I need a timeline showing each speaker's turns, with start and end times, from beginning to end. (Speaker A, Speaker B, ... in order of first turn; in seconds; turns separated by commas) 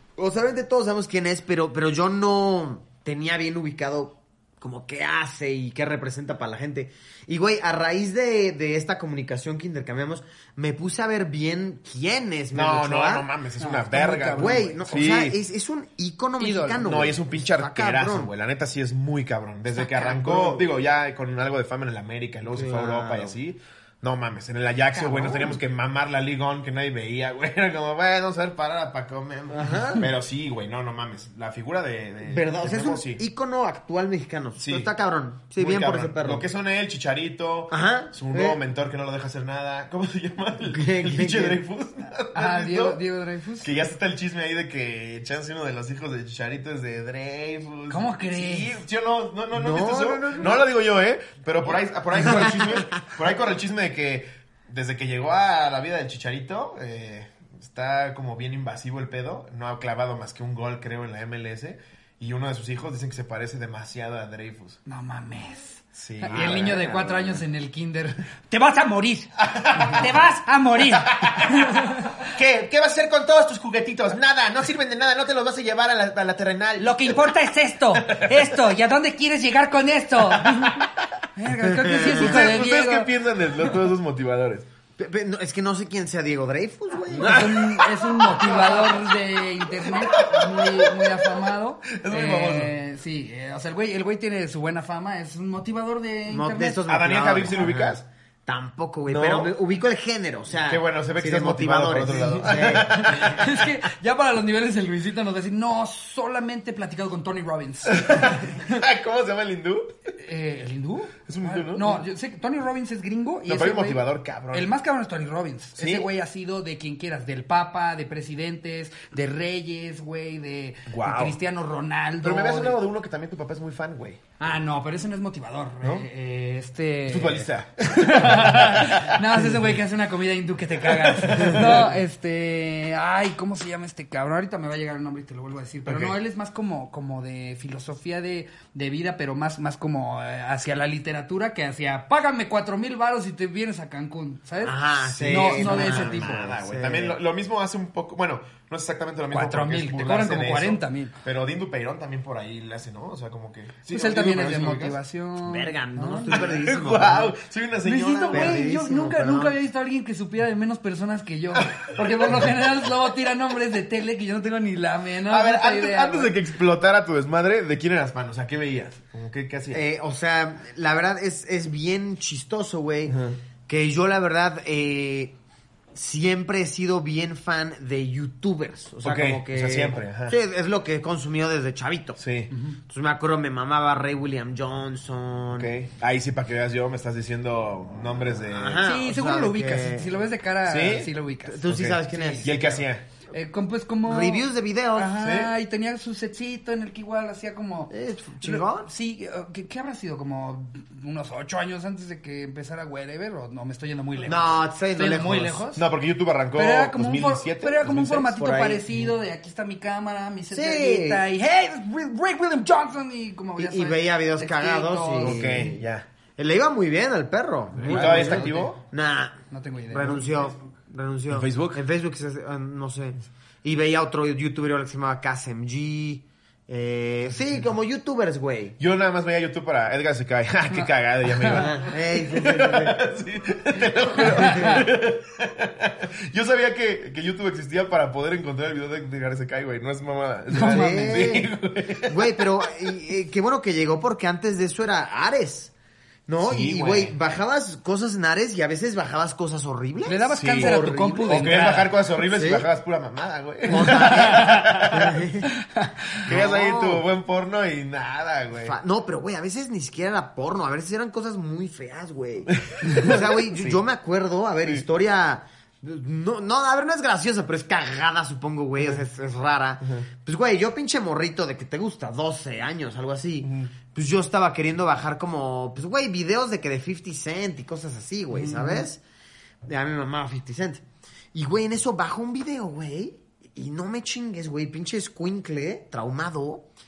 Speaker A: 0.2-13.3, Speaker B: 12.5-15.4, Speaker C: 13.6-14.8, Speaker A: 14.3-18.3, Speaker C: 16.4-16.8, Speaker B: 16.8-33.2, Speaker A: 19.9-20.7, Speaker A: 22.5-23.4, Speaker C: 24.9-25.6, Speaker A: 29.5-30.1, Speaker A: 32.2-36.5, Speaker B: 34.6-34.9, Speaker B: 35.6-43.0, Speaker A: 37.7-38.6, Speaker A: 40.7-41.6, Speaker C: 42.4-43.7, Speaker B: 43.6-64.8, Speaker C: 47.9-48.8, Speaker A: 49.5-50.6, Speaker A: 52.3-52.6, Speaker C: 64.9-72.3, Speaker B: 66.0-67.1, Speaker A: 66.3-67.3, Speaker B: 69.4-70.2, Speaker B: 70.9-77.3, Speaker C: 76.8-83.1, Speaker B: 77.9-78.5, Speaker A: 81.8-82.3, Speaker B: 82.1-84.7, Speaker A: 85.0-87.5, Speaker C: 87.2-96.8, Speaker B: 87.2-89.2, Speaker B: 89.8-92.7, Speaker A: 96.3-103.4, Speaker B: 96.9-98.0, Speaker B: 99.1-99.5, Speaker B: 100.7-103.7, Speaker C: 103.0-108.5, Speaker B: 107.9-110.1, Speaker C: 110.2-122.8, Speaker B: 111.3-112.0, Speaker B: 113.5-114.7, Speaker B: 115.8-116.1, Speaker B: 120.9-121.4, Speaker B: 122.2-124.2, Speaker C: 124.4-146.6, Speaker B: 127.1-129.6, Speaker B: 130.8-131.9, Speaker B: 135.9-136.2, Speaker A: 144.6-147.2, Speaker B: 145.1-155.0, Speaker C: 149.3-151.2, Speaker C: 153.9-156.5, Speaker A: 155.4-157.3, Speaker B: 156.3-158.7, Speaker C: 157.8-166.3, Speaker A: 158.3-159.6, Speaker B: 161.5-162.9, Speaker B: 165.3-169.8, Speaker A: 169.7-175.4, Speaker B: 173.1-173.4, Speaker A: 175.9-182.2, Speaker B: 179.0-180.4, Speaker B: 182.2-182.5, Speaker C: 182.5-182.8, Speaker A: 182.8-185.7, Speaker B: 185.5-188.8, Speaker A: 188.5-190.1, Speaker C: 188.8-192.7, Speaker B: 190.7-191.1, Speaker A: 191.4-192.8, Speaker B: 191.7-193.0, Speaker C: 193.3-205.8, Speaker A: 194.0-195.2, Speaker B: 195.2-195.5, Speaker A: 197.9-198.9, Speaker A: 204.2-205.6, Speaker B: 205.8-209.1, Speaker C: 206.6-215.7, Speaker A: 208.4-208.8, Speaker A: 210.5-211.2, Speaker A: 213.6-215.8, Speaker B: 215.2-216.1, Speaker A: 216.4-219.4, Speaker B: 217.8-218.8, Speaker C: 217.8-218.7, Speaker C: 219.5-220.2, Speaker A: 219.9-228.8, Speaker B: 221.3-221.8, Speaker B: 228.8-242.9, Speaker A: 231.6-233.0, Speaker A: 234.4-234.8, Speaker C: 234.5-234.8, Speaker C: 240.5-241.2, Speaker A: 240.6-241.5, Speaker A: 242.1-245.7, Speaker A: 246.3-251.7, Speaker B: 246.4-247.2, Speaker C: 250.1-251.9, Speaker B: 250.3-250.7, Speaker B: 251.3-255.3, Speaker A: 252.3-252.7, Speaker A: 253.7-255.5, Speaker C: 253.8-254.7, Speaker B: 256.2-258.8, Speaker A: 256.2-257.1, Speaker A: 258.6-279.0, Speaker B: 262.6-263.8, Speaker B: 273.4-273.7, Speaker B: 278.3-278.9, Speaker A: 279.7-280.8, Speaker A: 281.3-286.7